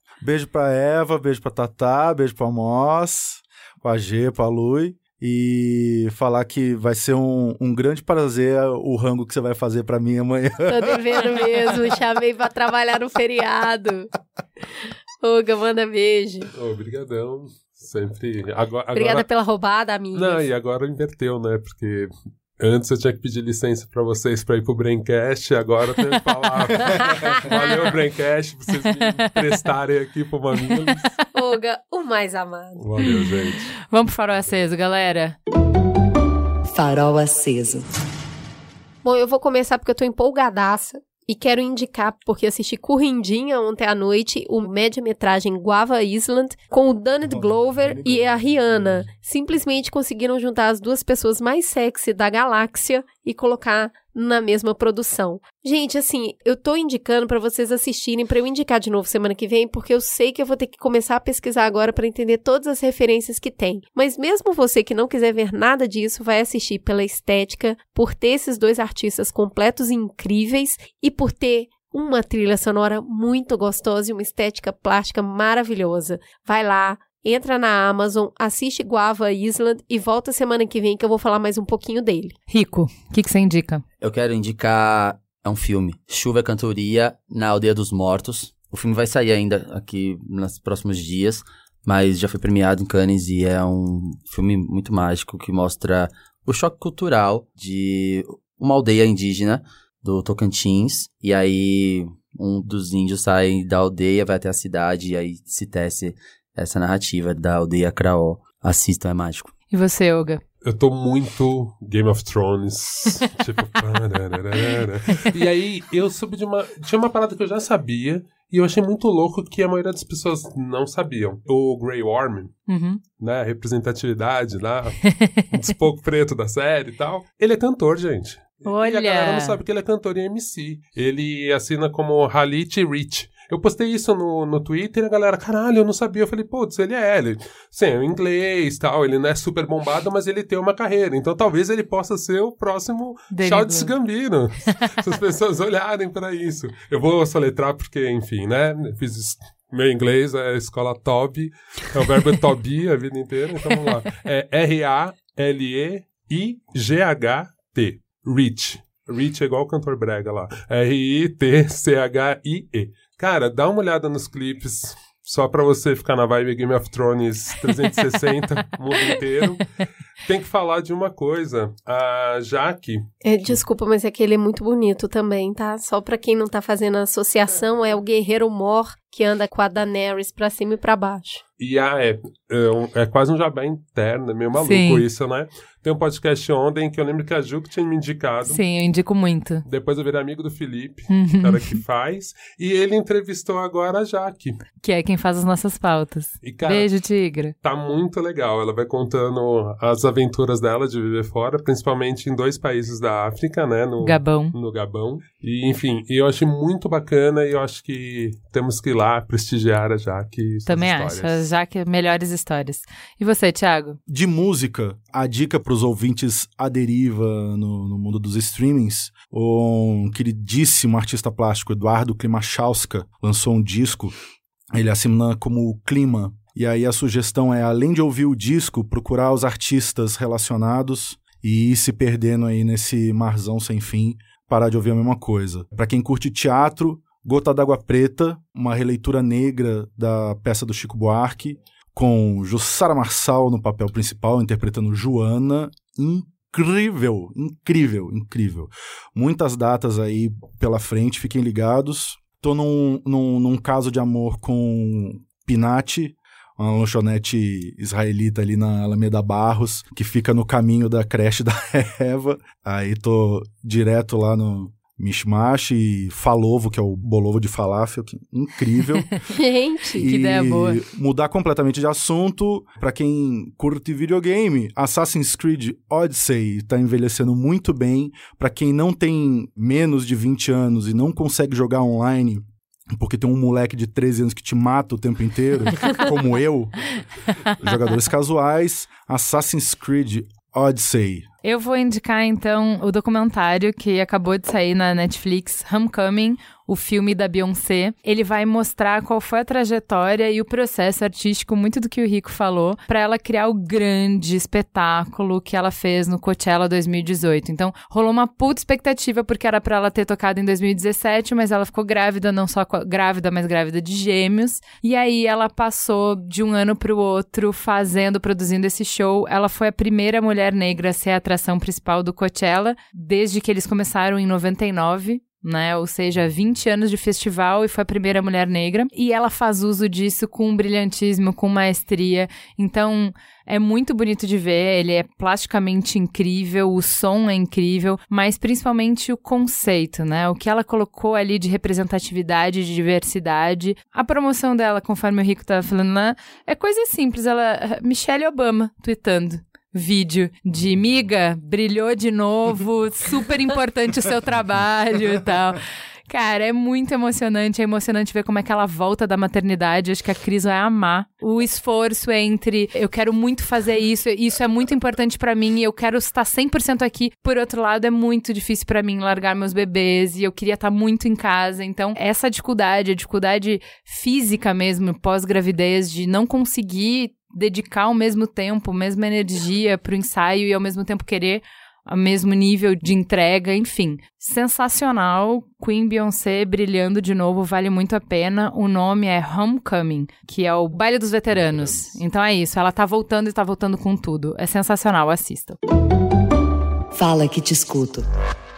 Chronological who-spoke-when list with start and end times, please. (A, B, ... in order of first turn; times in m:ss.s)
0:00.2-0:11.3 A
0:10.6-0:14.1 B
0:15.2-0:16.5 B
0:16.6-0:19.2 C
0:18.9-0:20.4 B
0:20.1-0:31.0 C
0:27.0-0:27.4 B
0:29.0-0:29.3 D
0:31.3-0:32.8 B
0:32.8-0:33.7 C
0:33.9-0:35.4 D
0:36.7-0:37.9 E
0:39.0-1:22.4 B
1:22.5-1:23.8 D
1:24.0-1:49.5 F
1:49.7-1:50.4 D
1:50.6-2:02.5 C
2:02.7-2:03.0 D
2:03.2-2:49.7 C
2:08.6-2:09.6 D
2:23.3-2:23.9 D
2:50.2-2:53.6 C
2:53.2-3:01.4 B
3:01.6-3:08.6 C
3:04.6-3:05.0 D
3:08.4-3:09.6 D
3:09.6-3:14.6 C
3:11.1-3:11.8 D
3:14.8-3:17.5 D
3:16.4-3:16.9 C
3:17.6-3:31.5 C
3:24.0-3:24.5 D
3:30.6-3:34.0 D
3:34.1-3:44.1 A
3:44.7-4:29.1 A
4:29.3-4:30.1 B
4:30.0-4:46.7 A
4:30.0-4:30.8 D
4:47.6-4:51.3 A
4:51.4-6:35.6 D
6:36.9-6:38.1 E